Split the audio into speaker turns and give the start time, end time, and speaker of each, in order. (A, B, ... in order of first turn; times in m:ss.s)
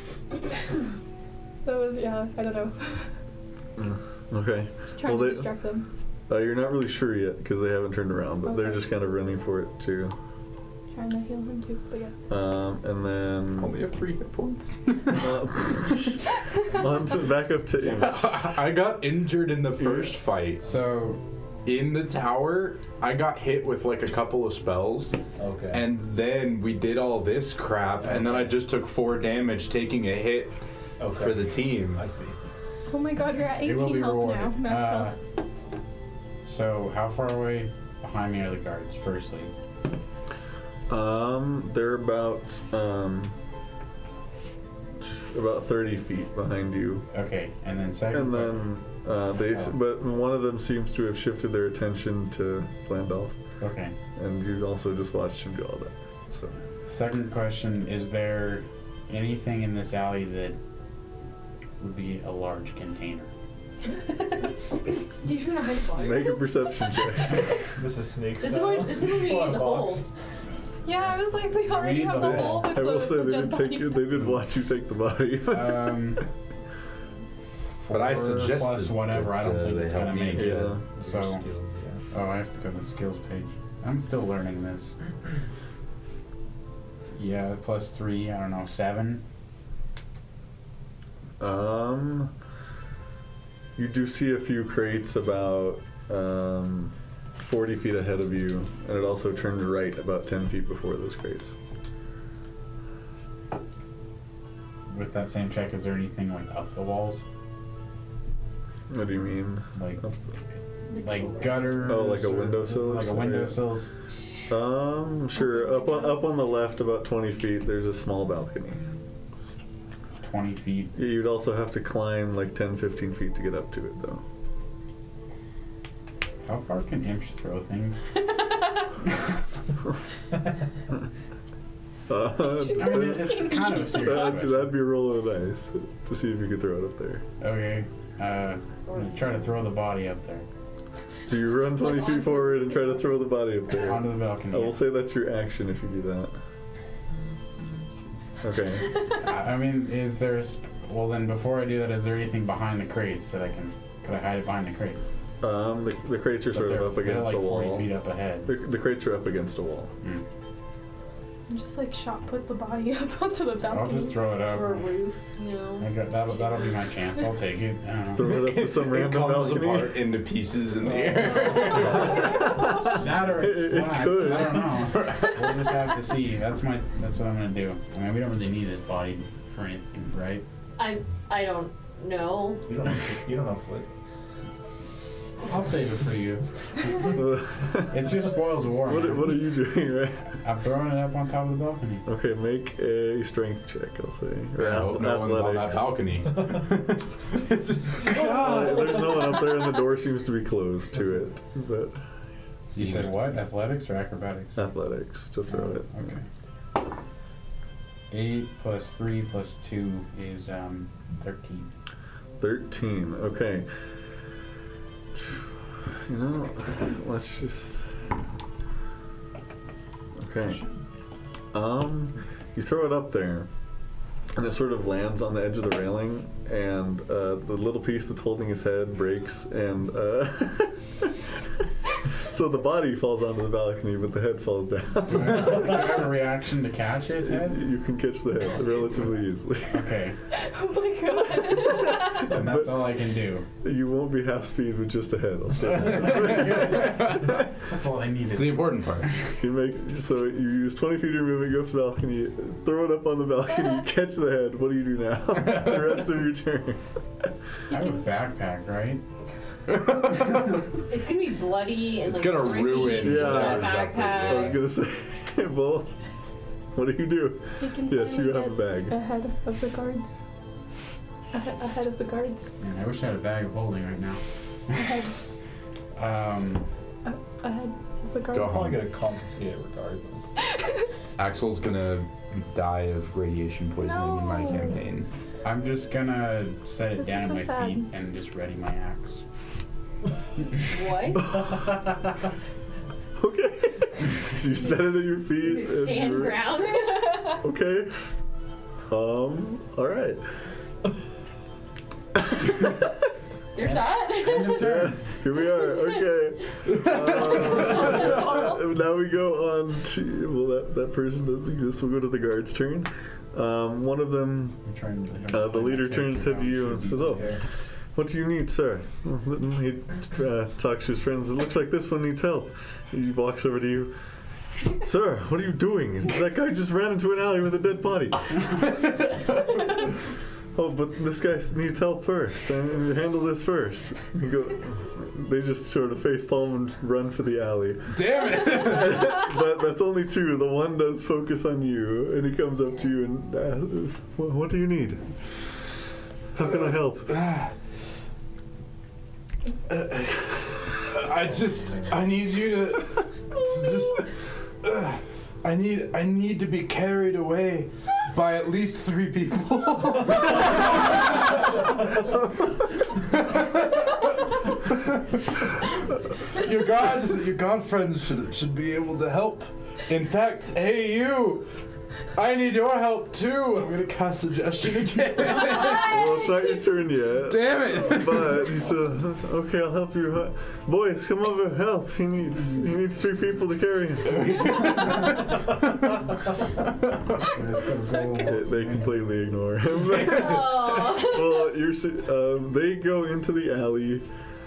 0:01.6-0:03.1 A
0:03.8-0:05.5 B
0:04.9-0:05.8 A
0:06.3-0:10.1 B
0:08.5-0:08.9 A
0:10.9-0:12.1 A
0:12.3-0:13.7 B
0:13.6-0:15.3 C
0:15.1-0:18.4 B
0:17.8-0:25.2 C
0:19.8-0:20.1 B
0:20.7-0:21.2 D
0:25.4-0:25.8 E
0:25.7-0:30.5 C
0:28.0-0:28.5 E
0:31.0-0:32.3 E
0:31.1-0:32.0 C
0:32.9-0:35.1 A
0:33.6-0:35.1 D
0:36.4-0:39.5 D
0:40.9-0:43.3 B
0:45.0-0:47.0 B
0:47.1-0:48.6 D
0:48.1-0:53.4 B
0:53.6-0:53.9 D
0:54.2-0:56.5 B
0:56.9-1:00.6 D
1:01.8-1:03.3 D
1:04.1-1:04.5 A
1:05.2-1:06.4 F
1:05.9-1:07.5 B
1:07.8-1:10.0 E
1:08.4-1:10.0 F
1:10.8-1:14.1 A
1:11.6-1:12.8 D
1:12.2-1:16.2 B
1:15.5-1:16.2 D
1:17.8-1:21.4 D
1:17.9-1:20.8 C
1:20.3-1:20.8 B
1:21.0-1:22.0 E
1:22.1-1:25.0 D
1:27.1-1:29.2 D
1:31.4-1:32.3 B
1:33.8-1:41.5 B
1:44.9-1:47.2 D
1:48.9-1:50.2 B
1:49.7-1:50.0 D
1:50.9-1:51.7 F
1:50.9-1:53.9 D
1:51.8-1:53.6 B
1:54.5-1:58.9 B
1:55.3-1:56.3 A
2:00.2-2:00.9 D
2:00.9-2:04.2 B
2:06.4-2:08.0 D
2:12.1-2:17.2 B
2:12.6-2:14.2 A
2:12.8-2:14.7 D
2:17.4-2:20.4 D
2:18.8-2:19.5 F
2:21.2-2:26.3 B
2:21.8-2:22.9 F
2:23.8-2:24.8 D
2:28.4-2:28.9 B
2:29.2-2:35.2 D
2:35.4-2:37.9 B
2:36.5-2:38.5 D
2:38.4-2:39.9 B
2:41.5-2:44.3 A
2:43.7-2:44.8 D
2:44.4-2:45.9 F
2:45.8-2:48.3 D
2:48.1-2:50.0 B
2:48.2-2:52.2 C
2:51.9-2:53.0 A
2:52.1-2:54.8 B
2:52.8-3:00.4 D
2:54.5-2:55.7 C
3:00.8-3:02.7 F
3:02.7-3:03.9 E
3:05.4-3:07.2 D
3:07.1-3:08.2 B
3:07.9-3:09.5 D
3:08.8-3:10.3 B
3:10.4-3:12.0 D
3:12.0-3:16.0 B
3:14.6-3:19.1 C
3:18.0-3:22.0 B
3:22.7-3:24.6 D
3:22.7-3:23.2 C
3:24.6-3:26.1 B
3:25.5-3:26.2 D
3:28.1-3:31.7 D
3:32.4-3:33.7 B
3:35.2-3:35.4 B
3:36.1-3:37.9 B
3:40.2-3:40.6 B
3:41.5-3:43.5 B
3:44.3-3:51.1 B
3:52.1-3:56.0 B
3:55.1-3:57.6 D
3:57.2-3:59.9 B
3:59.7-4:00.2 D
4:00.3-4:02.3 A
4:01.8-4:02.9 B
4:02.0-4:03.4 D
4:03.6-4:07.0 B
4:05.8-4:07.4 C
4:06.0-4:09.3 D
4:08.3-4:09.1 C
4:09.4-4:16.8 B
4:15.4-4:16.0 C
4:17.7-4:19.0 D
4:17.7-4:18.0 A
4:19.7-4:20.6 C
4:20.9-4:24.6 F
4:22.0-4:24.6 C
4:23.0-4:25.9 B
4:26.7-4:28.9 B
4:27.6-4:30.2 A
4:31.3-4:32.5 A
4:32.6-4:35.0 D
4:34.7-4:35.1 A
4:35.9-4:36.6 D
4:37.0-4:38.7 A
4:38.3-4:38.8 C
4:38.5-4:40.3 E
4:41.2-4:45.1 C
4:43.8-4:44.8 A
4:45.4-4:49.2 D
4:47.0-4:47.9 A
4:50.6-4:51.3 F
4:53.2-4:56.5 B
4:55.4-4:57.2 F
4:57.4-4:58.0 B
4:58.9-5:00.2 B
5:03.5-5:04.7 F
5:03.6-5:05.0 D
5:04.5-5:14.6 B
5:06.8-5:07.1 C
5:14.6-5:17.3 D
5:15.3-5:17.4 B
5:16.9-5:17.4 E
5:17.9-5:23.9 B
5:24.8-5:28.4 B
5:30.5-5:45.0 B
5:37.9-5:39.2 C
5:46.3-5:47.1 B
5:47.1-5:47.5 C
5:49.7-6:01.7 C
5:51.6-5:52.0 E
6:02.9-6:05.2 C
6:06.3-6:11.5 C
6:12.1-6:16.0 C
6:15.6-6:24.6 B
6:17.2-6:18.5 C
6:24.2-6:25.0 C
6:27.2-6:29.1 D
6:27.6-6:28.4 A
6:28.2-6:34.0 B
6:29.9-6:31.4 F